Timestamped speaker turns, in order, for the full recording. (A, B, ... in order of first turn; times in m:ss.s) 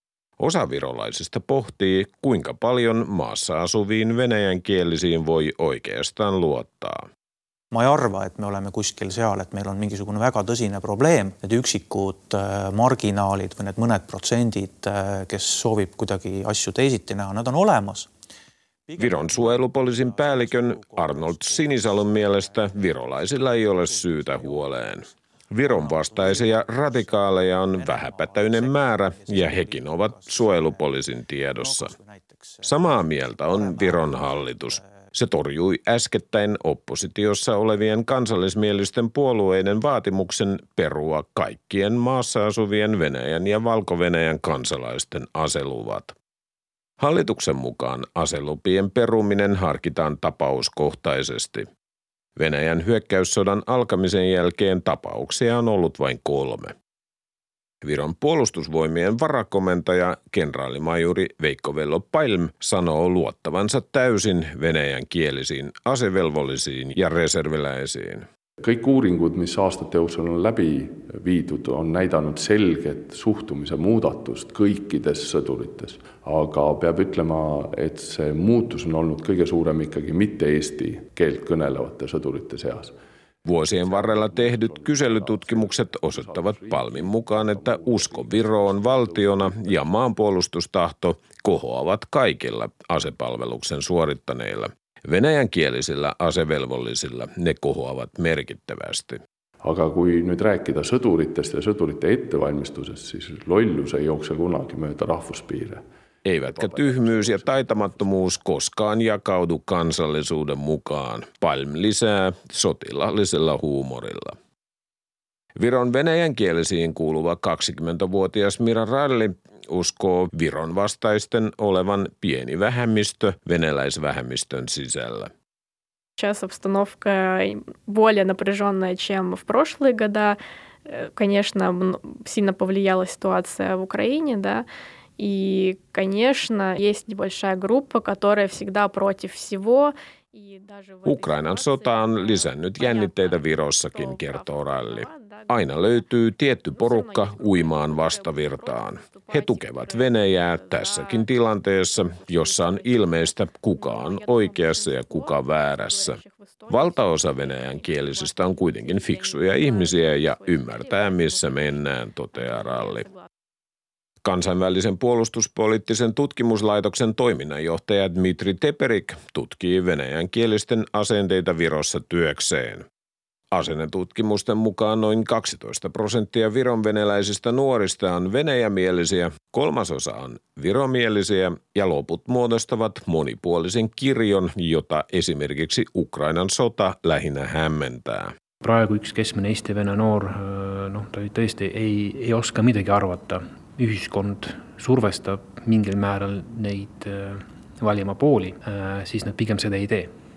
0:00.4-0:07.1 A
0:07.7-0:18.1 B
0:18.9-0:25.0 B
0:19.0-0:31.9 A
0:25.6-0:30.9 B
0:31.5-0:35.1 B
0:32.6-0:46.1 A
0:47.0-0:51.7 A
0:52.4-0:56.7 A
0:57.8-1:08.3 A
1:08.6-1:23.0 C
1:23.4-1:39.2 A
1:23.5-1:30.0 C
1:39.6-1:45.8 C
1:46.2-1:54.4 A
1:46.4-1:48.4 C
1:55.6-2:05.3 A
2:06.2-2:14.6 D
2:15.2-2:43.3 D
2:21.0-2:43.1 A
2:44.2-2:52.8 A
2:53.5-3:08.3 A
3:08.6-3:20.1 E